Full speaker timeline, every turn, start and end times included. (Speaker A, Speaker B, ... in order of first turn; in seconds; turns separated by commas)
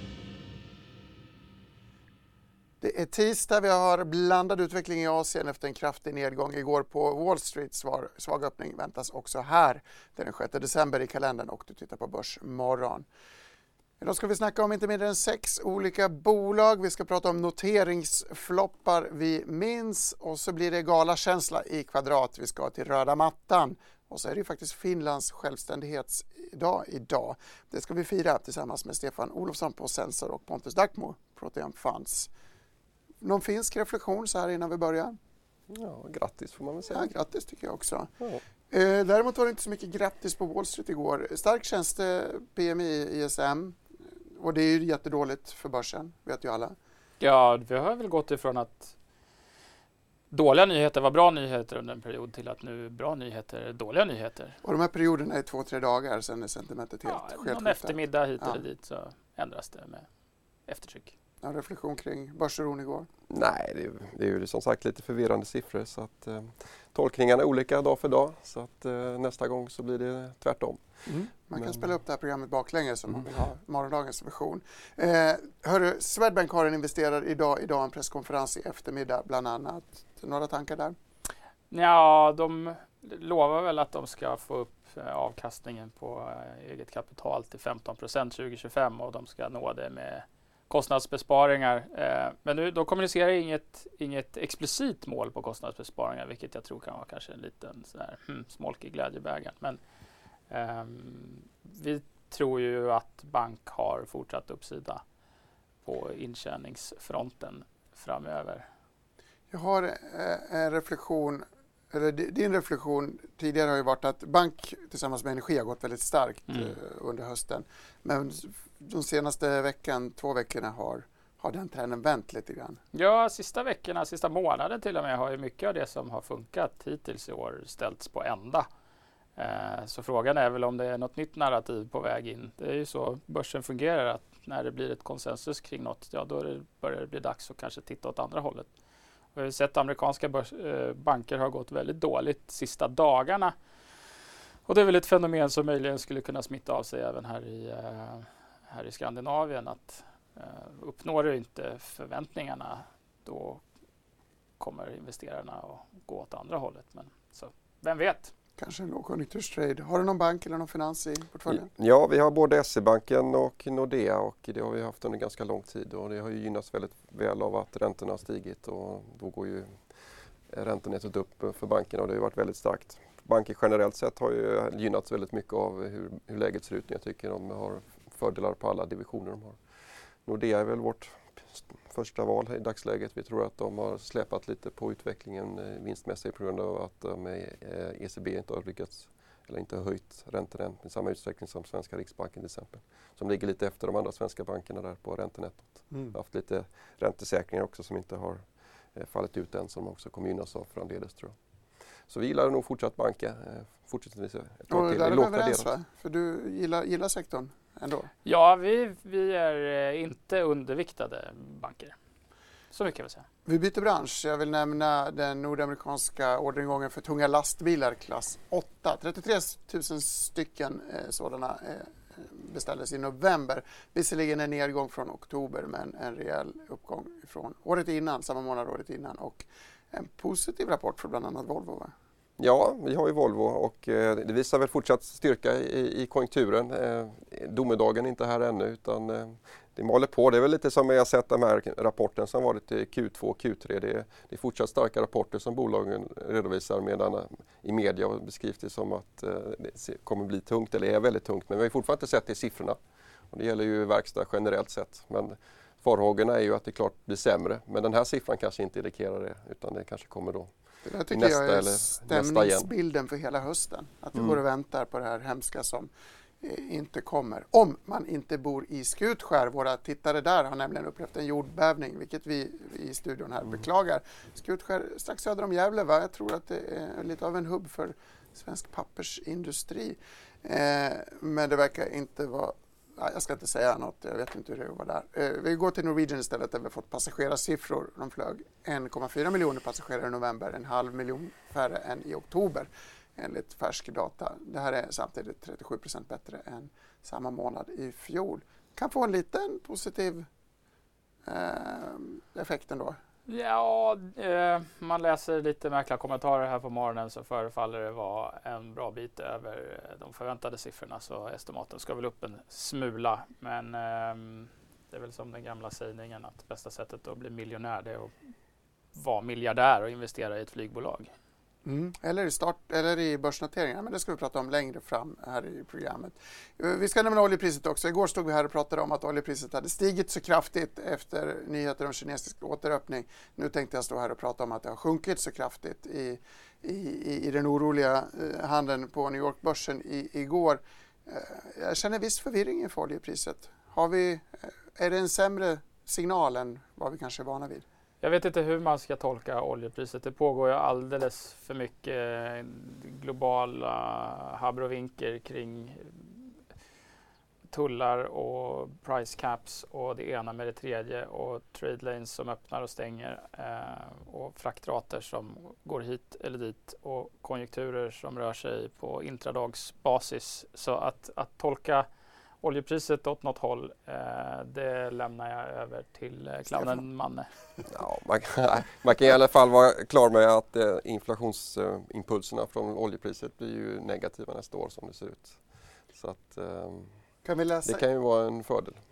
Speaker A: 2.8-13.1, Speaker A: 14.0-32.3, Speaker A: 33.2-35.2, Speaker B: 35.7-37.1, Speaker A: 36.9-38.1, Speaker A: 38.7-43.8, Speaker A: 44.4-46.8, Speaker C: 47.2-49.0, Speaker C: 50.3-54.6, Speaker A: 54.6-58.6, Speaker C: 57.1-60.1, Speaker C: 60.7-61.1, Speaker A: 61.4-63.1, Speaker B: 63.3-70.8, Speaker A: 71.1-81.0, Speaker B: 71.5-71.9, Speaker C: 81.7-99.8, Speaker C: 100.5-105.0, Speaker C: 105.8-108.7, Speaker A: 109.5-122.8, Speaker C: 122.9-128.7, Speaker C: 129.4-138.7, Speaker C: 139.3-143.6, Speaker C: 144.7-153.6, Speaker C: 154.6-158.3, Speaker A: 158.6-161.7, Speaker B: 161.5-169.8, Speaker B: 170.5-179.6, Speaker B: 180.3-201.4, Speaker B: 202.1-205.7, Speaker A: 204.7-208.1, Speaker C: 208.2-211.9, Speaker C: 212.7-213.3, Speaker A: 213.5-231.9, Speaker B: 232.4-252.8, Speaker B: 253.3-260.5, Speaker A: 260.8-265.9, Speaker B: 261.1-262.7, Speaker A: 266.4-300.3, Speaker A: 301.2-303.0, Speaker C: 303.3-318.1, Speaker C: 318.9-321.1, Speaker A: 321.6-347.6, Speaker C: 348.0-356.0, Speaker C: 357.5-371.9, Speaker C: 372.4-377.3, Speaker A: 376.5-376.8, Speaker B: 377.7-385.4, Speaker B: 385.9-386.9, Speaker A: 387.2-387.8, Speaker B: 387.6-388.8